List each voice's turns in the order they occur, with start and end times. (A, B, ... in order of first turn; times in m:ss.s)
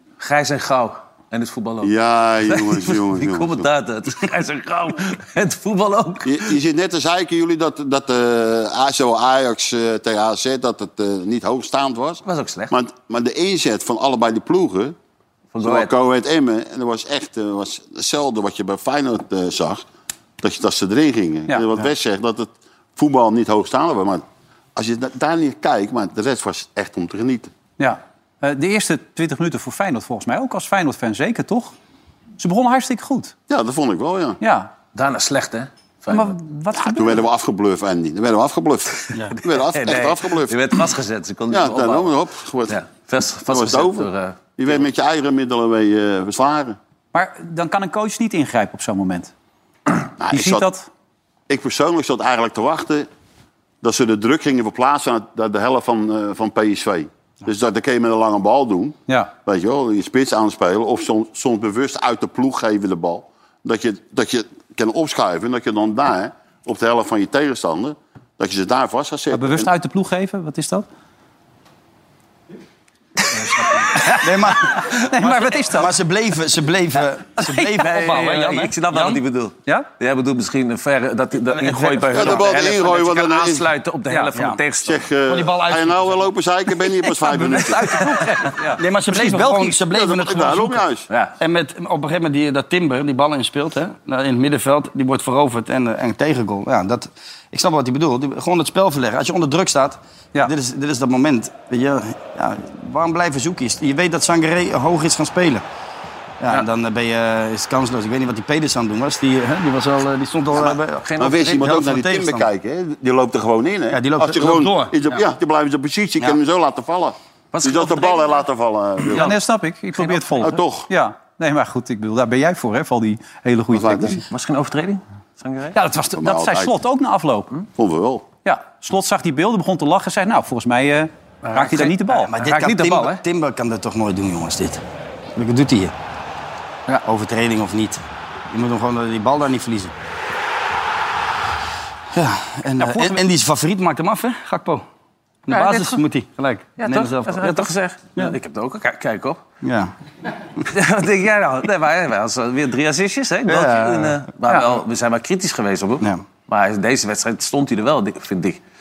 0:00.2-0:01.9 A
0:01.8-0:03.7 B
0:02.5-0:06.5 A
0:06.2-0:15.0 B
0:12.3-0:12.7 A
0:15.5-0:15.9 A
0:15.6-0:19.8 B
0:20.4-0:24.2 B
0:24.8-0:27.5 B
0:27.8-0:31.7 C
0:32.4-0:33.3 C
0:33.5-0:34.4 B
0:34.4-0:34.7 C
0:34.9-0:36.3 A
0:36.1-0:37.3 C
0:36.8-0:40.6 B
0:39.7-0:42.2 A
0:41.5-0:42.8 B
0:42.7-0:44.7 A
0:43.5-0:46.8 B
0:47.1-0:49.3 C
0:50.2-0:50.7 B
0:50.3-0:50.9 C
0:51.5-0:53.1 B
0:53.8-1:09.7 B
1:09.3-1:10.9 C
1:13.5-1:19.2 D
1:14.0-1:15.9 C
1:17.6-1:25.0 A
1:21.5-1:22.5 D
1:22.1-1:23.7 B
1:24.1-1:24.6 D
1:24.8-1:28.1 B
1:25.3-1:26.3 D
1:27.2-1:27.8 D
1:27.7-1:29.8 C
1:28.7-1:30.8 D
1:29.9-1:31.1 B
1:31.4-1:45.6 D
1:46.4-1:52.5 D
1:50.6-1:51.8 A
1:51.2-1:59.3 B
1:53.9-1:55.2 D
1:57.5-1:58.4 A
1:59.1-2:04.2 C
2:00.0-2:00.3 A
2:00.4-2:00.9 B
2:03.7-2:04.2 B
2:04.3-2:05.8 A
2:05.7-2:07.5 C
2:06.2-2:06.7 B
2:07.8-2:08.2 B
2:08.4-2:12.3 C
2:11.5-2:13.2 A
2:12.3-2:14.8 D
2:15.4-2:15.9 D
2:17.0-2:19.9 D
2:22.1-2:24.8 D
2:22.8-2:23.1 C
2:25.5-2:28.4 D
2:25.5-2:26.0 A
2:26.8-2:29.4 A
2:29.6-2:29.9 D
2:30.7-2:38.6 A
2:33.5-2:34.3 D